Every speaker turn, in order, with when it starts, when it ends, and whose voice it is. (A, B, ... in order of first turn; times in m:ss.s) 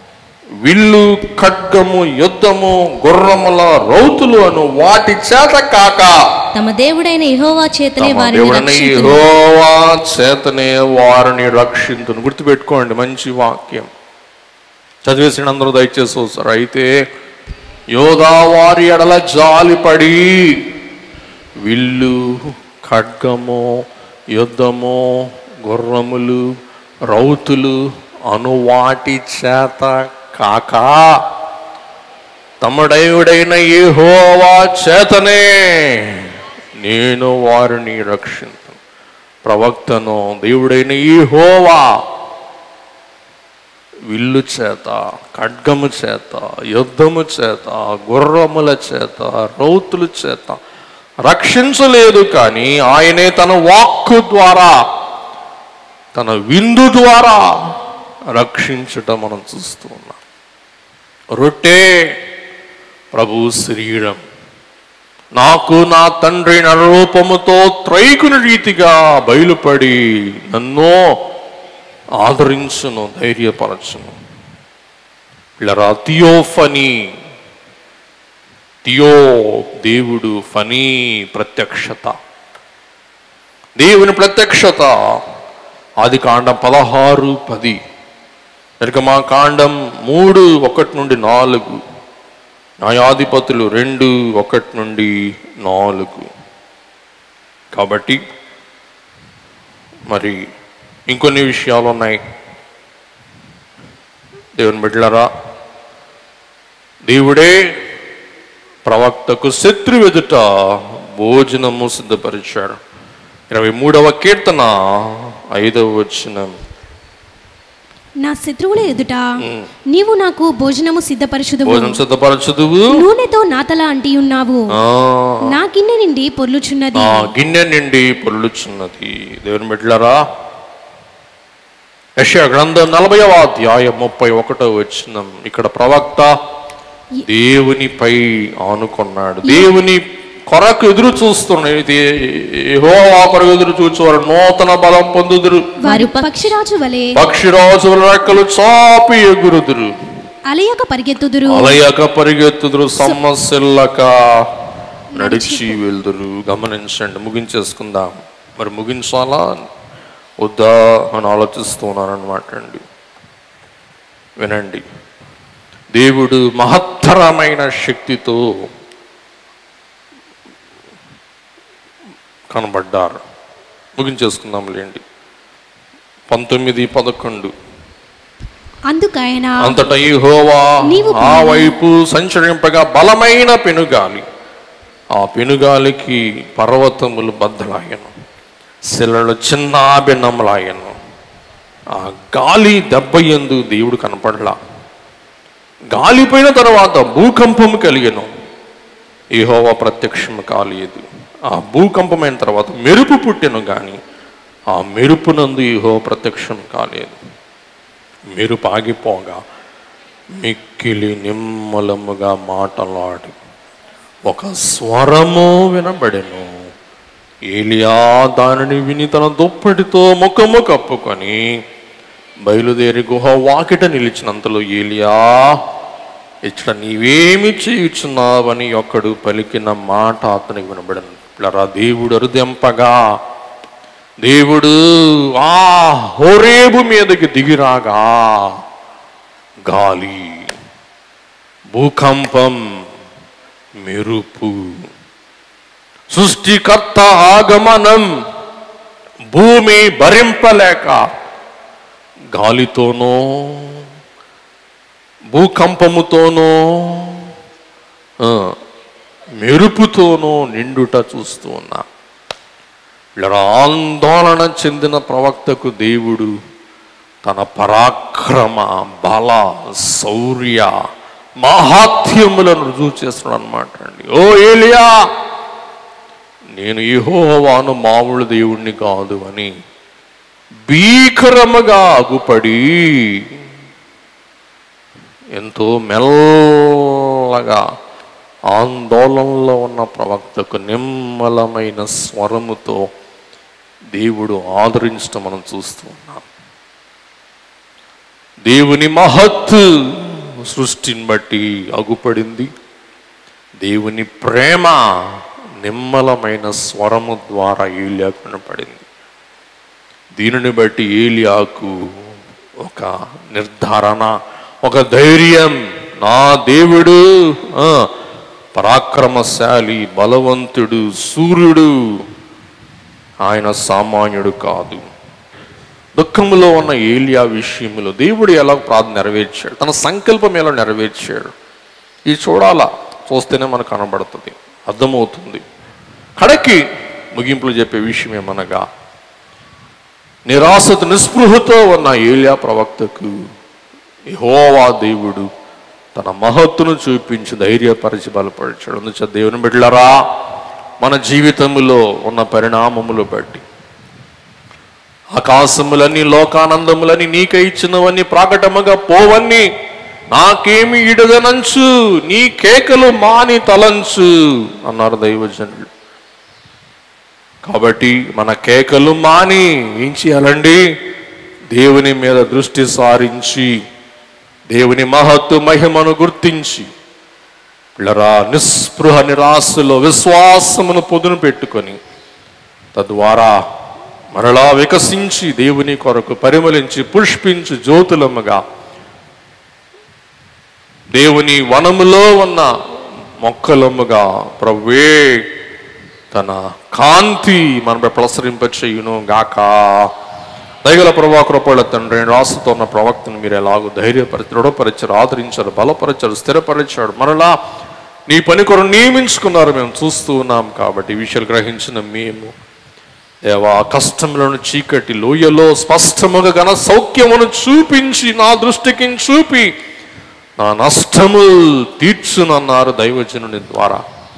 0:00.6-0:06.2 A
0:06.6-0:09.2 B
0:08.0-0:13.9 A
0:15.0-0:16.9 A
0:18.0-0:20.6 A
0:21.6-0:26.4 A
0:27.1-0:31.2 A
0:32.6-0:38.8 A
0:39.4-0:41.9 A
0:44.1-0:50.6 A
0:51.2-0:54.8 A
0:56.1-0:57.5 A
0:58.3-1:00.2 A
1:01.4-1:02.1 A
1:03.2-1:04.2 A
1:05.4-1:11.2 A
1:12.2-1:14.1 A
1:15.6-1:17.1 A
1:18.8-1:22.2 A
1:23.8-1:25.0 A
1:26.0-1:27.8 A
1:28.8-1:31.8 A
1:32.8-1:36.3 A
1:37.7-1:38.2 A
1:40.1-1:40.4 A
1:41.1-1:42.2 A
1:44.6-1:45.3 A
1:47.1-1:47.6 A
1:48.9-1:52.8 A
1:53.5-1:56.5 A
1:58.2-1:59.3 C
1:59.4-1:59.7 A
1:59.9-2:02.0 C
2:01.6-2:03.0 A
2:02.9-2:04.7 C
2:04.7-2:05.5 A
2:05.4-2:07.3 C
2:07.0-2:10.2 A
2:12.2-2:16.3 A
2:17.3-2:25.7 A
2:19.4-2:19.7 C
2:25.8-2:27.1 C
2:25.8-2:26.5 B
2:27.1-2:30.0 A
2:30.5-2:31.8 C
2:31.5-2:34.5 A
2:35.1-2:35.8 C
2:35.2-2:39.6 A
2:40.4-2:42.8 A
2:44.4-2:44.8 A
2:46.0-2:48.7 A
2:52.5-2:53.2 A
2:54.0-2:55.0 A
2:56.3-2:57.5 A
2:58.9-2:59.8 C
2:59.6-3:04.2 A
3:00.9-3:01.8 C
3:05.2-3:08.1 A
3:08.9-3:11.0 A
3:11.9-3:14.6 A
3:15.9-3:18.3 A
3:19.4-3:24.0 A
3:24.7-3:27.2 A
3:28.4-3:29.4 A
3:30.4-3:33.4 A
3:34.3-3:36.7 A
3:37.5-3:41.6 A
3:42.4-3:45.6 A
3:46.5-3:53.2 A
3:54.2-3:58.6 A
3:59.7-4:00.5 A
4:01.7-4:02.6 A
4:03.8-4:04.8 A
4:06.1-4:08.1 A
4:09.3-4:11.0 A
4:12.3-4:13.8 A
4:15.3-4:17.3 A
4:18.2-4:18.5 A
4:19.4-4:21.8 A
4:23.2-4:26.3 A
4:27.2-4:30.8 A
4:31.4-4:35.0 A
4:36.6-4:39.5 A
4:40.7-4:43.2 A
4:45.4-4:47.6 A
4:48.5-4:52.9 A
4:53.9-4:56.2 A
4:58.5-5:02.5 A
5:03.6-5:04.8 A
5:05.6-5:08.8 A
5:10.2-5:11.8 A
5:12.6-5:17.9 A
5:18.6-5:22.0 A
5:23.2-5:24.8 A
5:26.0-5:31.3 A
5:32.1-5:35.4 A
5:36.2-5:36.6 A
5:37.1-5:38.6 A
5:40.3-5:43.2 A
5:44.1-5:45.3 A
5:46.0-5:50.0 A
5:50.8-5:53.4 A
5:55.1-5:59.4 A
6:00.1-6:05.7 A
6:07.4-6:10.6 A
6:11.5-6:13.6 A
6:14.5-6:16.7 A
6:17.8-6:21.8 A
6:22.8-6:23.4 A
6:24.2-6:28.4 A
6:30.9-6:32.5 A
6:33.2-6:35.2 A
6:36.1-6:39.9 A
6:40.6-6:47.4 A
6:48.1-6:52.3 A
6:53.3-6:59.5 A
7:00.4-7:03.8 A